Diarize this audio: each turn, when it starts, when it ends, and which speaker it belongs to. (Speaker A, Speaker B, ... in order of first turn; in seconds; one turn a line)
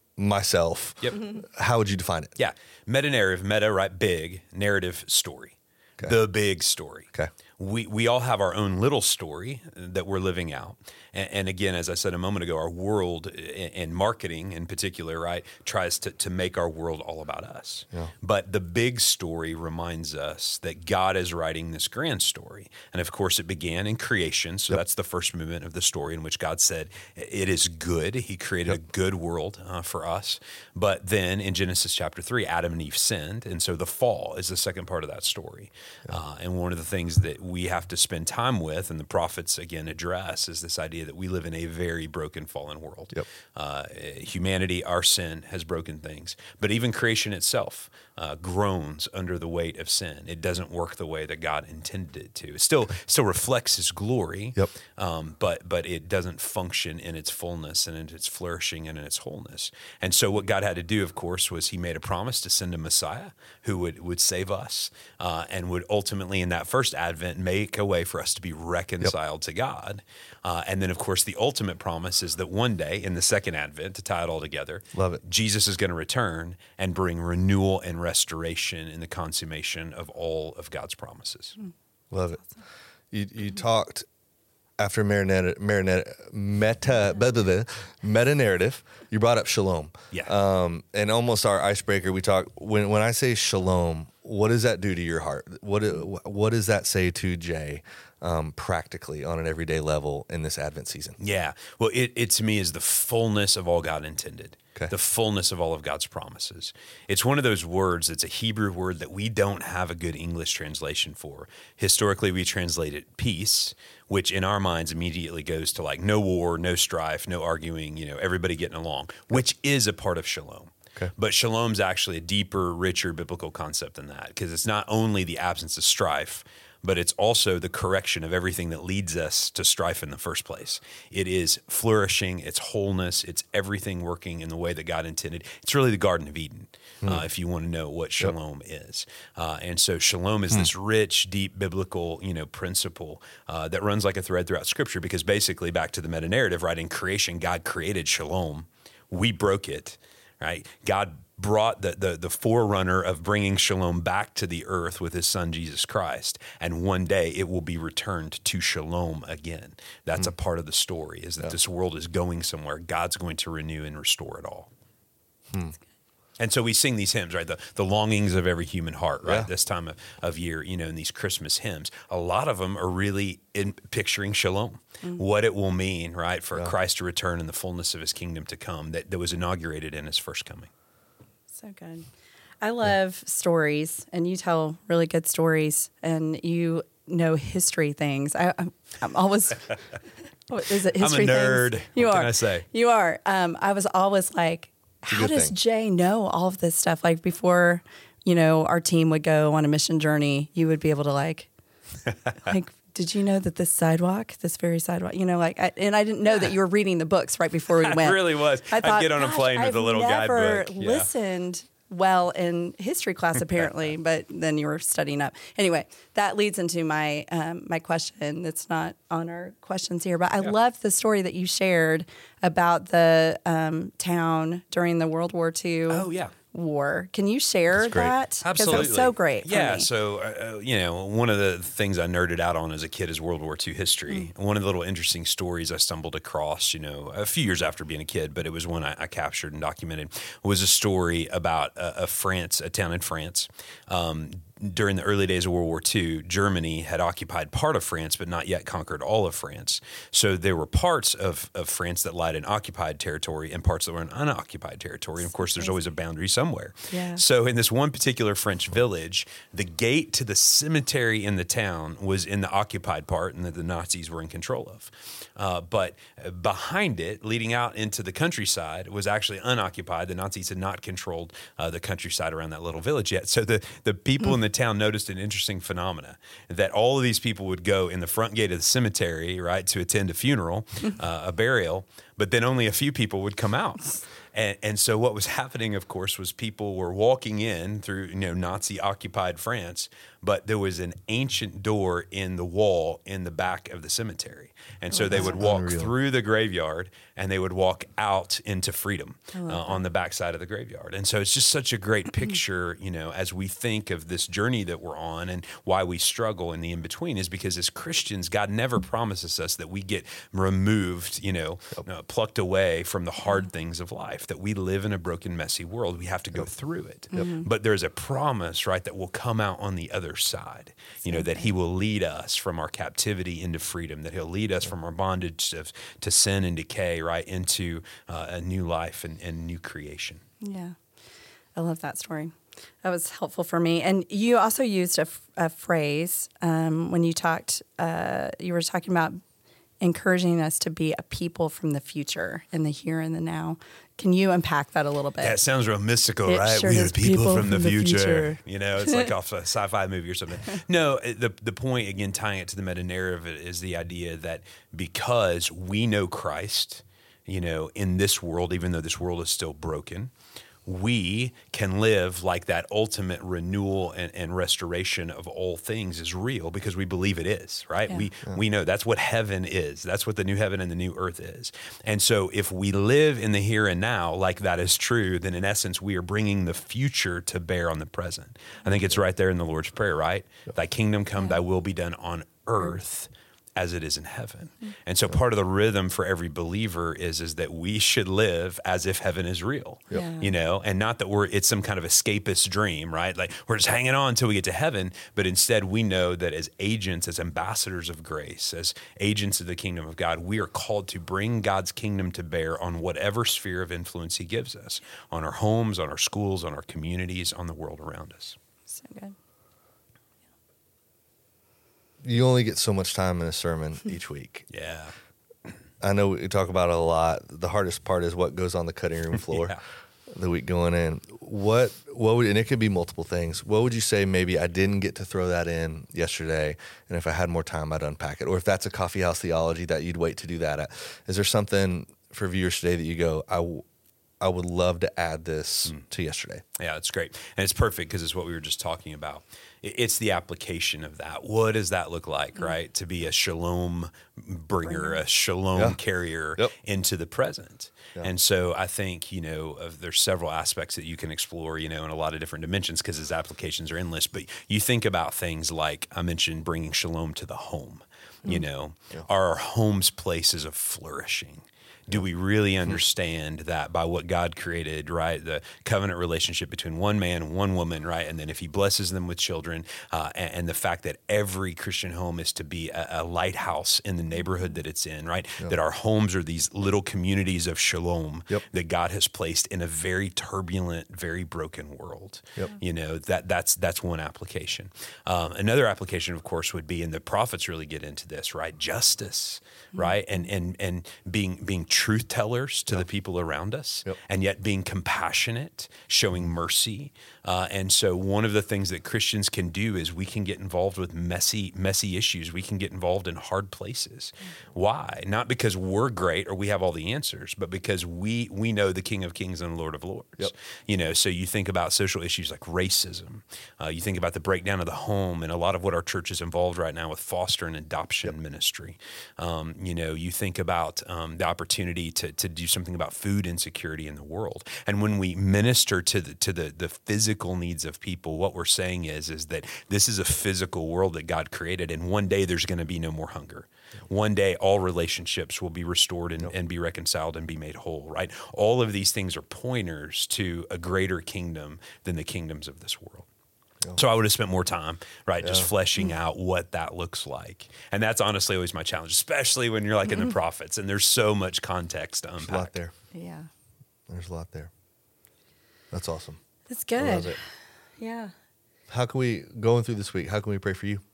Speaker A: 0.2-2.3
Speaker B: 2.4-81.5
Speaker A: 74.9-75.2
Speaker A: 82.1-82.4
Speaker A: 83.1-84.0
Speaker A: 84.8-101.2
Speaker B: 101.2-164.7
Speaker A: 165.5-165.8
Speaker B: 166.4-180.7
Speaker A: 169.2-169.5
Speaker C: 181.5-182.1
Speaker C: 182.6-189.7
Speaker C: 190.5-201.5
Speaker B: 190.9-192.7
Speaker A: 195.1-195.5
Speaker C: 202.4-229.9
Speaker B: 207.7-211.1
Speaker B: 225.9-226.3
Speaker A: 227.7-228.2
Speaker B: 228.4-330.2
Speaker C: 255.2-255.8
Speaker C: 256.9-257.2
Speaker C: 294.9-295.4
Speaker A: 295.1-295.9
Speaker C: 299.3-299.8
Speaker C: 317.1-317.5
Speaker C: 321.1-321.5
Speaker C: 330.4-330.8
Speaker C: 331.5-339.2
Speaker C: 339.8-345.4
Speaker B: 345.2-360.1
Speaker C: 346.2-349.1
Speaker B: 360.6-408.4
Speaker C: 389.9-390.3
Speaker C: 408.7-409.1
Speaker A: 412.0-414.5
Speaker B: 414.5-414.9
Speaker A: 415.8-419.6
Speaker B: 419.3-419.6
Speaker A: 420.1-433.6
Speaker A: 434.2-436.4
Speaker B: 436.6-543.0
Speaker C: 444.7-445.0
Speaker B: 543.8-552.5
Speaker A: 545.2-545.5
Speaker A: 552.2-552.7
Speaker C: 552.9-553.3
Speaker A: 553.9-554.5
Speaker A: 555.7-556.2
Speaker C: 556.5-557.2
Speaker A: 556.8-557.2
Speaker C: 557.8-558.1
Speaker A: 558.7-560.8